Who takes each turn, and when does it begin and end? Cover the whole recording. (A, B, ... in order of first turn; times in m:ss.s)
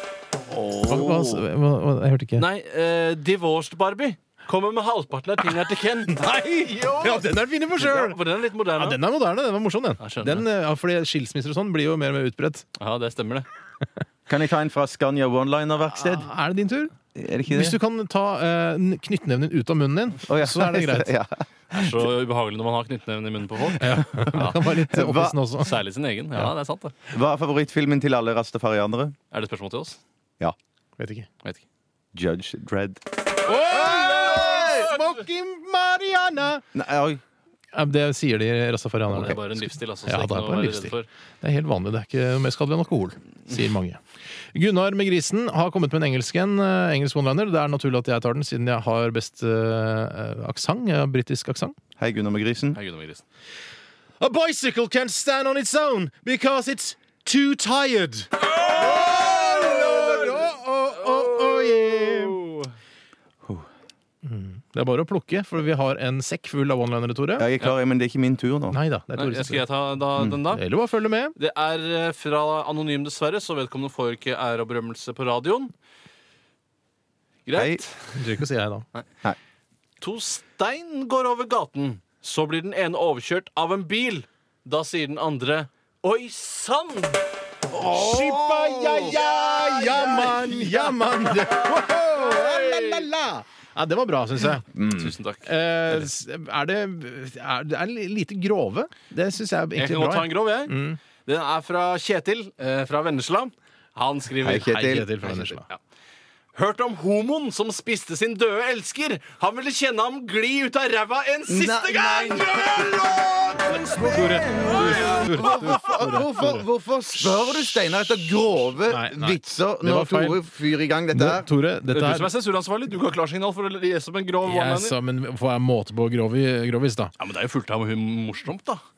0:00.5-0:01.4 A
0:00.9-0:02.4 B
0:02.4-0:09.0 C
0:06.0-0:08.2 B
0:08.7-0:12.6 B
0:10.0-0:10.4 C
0:12.8-0:13.4 C
0:14.3-0:16.3 A
0:15.8-0:16.9 B
0:17.1-0:17.8 A
0:17.5-0:21.1 B
0:20.3-0:21.9 A
0:21.7-0:24.6 C
0:23.8-0:25.8 B
0:23.9-0:25.4 A
0:25.6-0:26.9 C
0:27.1-0:29.2 A
0:29.3-0:30.0 C
0:31.0-0:31.3 B
0:32.1-0:33.0 A
0:33.4-0:36.6 B
0:33.7-0:34.9 A
0:36.7-0:37.2 A
0:37.7-0:44.0 B
0:39.1-0:41.1 C
0:44.5-0:51.7 B
0:52.0-0:52.8 A
0:52.7-0:53.2 C
0:54.2-1:02.4 B
0:58.5-1:00.4 C
1:01.0-1:02.7 C
1:04.2-1:07.5 B
1:07.4-1:08.8 A
1:08.7-1:09.7 B
1:09.2-1:10.6 C
1:10.2-1:10.4 A
1:10.5-1:11.4 B
1:11.4-1:15.7 C
1:17.5-1:18.2 C
1:17.5-1:17.8 A
1:18.2-1:18.8 B
1:20.0-1:27.2 C
1:27.7-1:34.7 B
1:27.7-1:30.3 A
1:28.9-1:33.1 C
1:34.7-1:35.2 A
1:34.9-1:36.1 C
1:35.4-1:41.0 B
1:39.8-1:44.7 C
1:44.4-1:45.1 A
1:44.7-1:45.6 B
1:45.2-1:45.8 C
1:46.5-1:55.7 C
1:51.5-2:01.5 A
1:53.7-1:56.6 B
1:58.8-2:00.4 B
2:01.1-2:02.3 B
2:01.9-2:04.9 C
2:04.4-2:07.1 B
2:07.2-2:08.8 C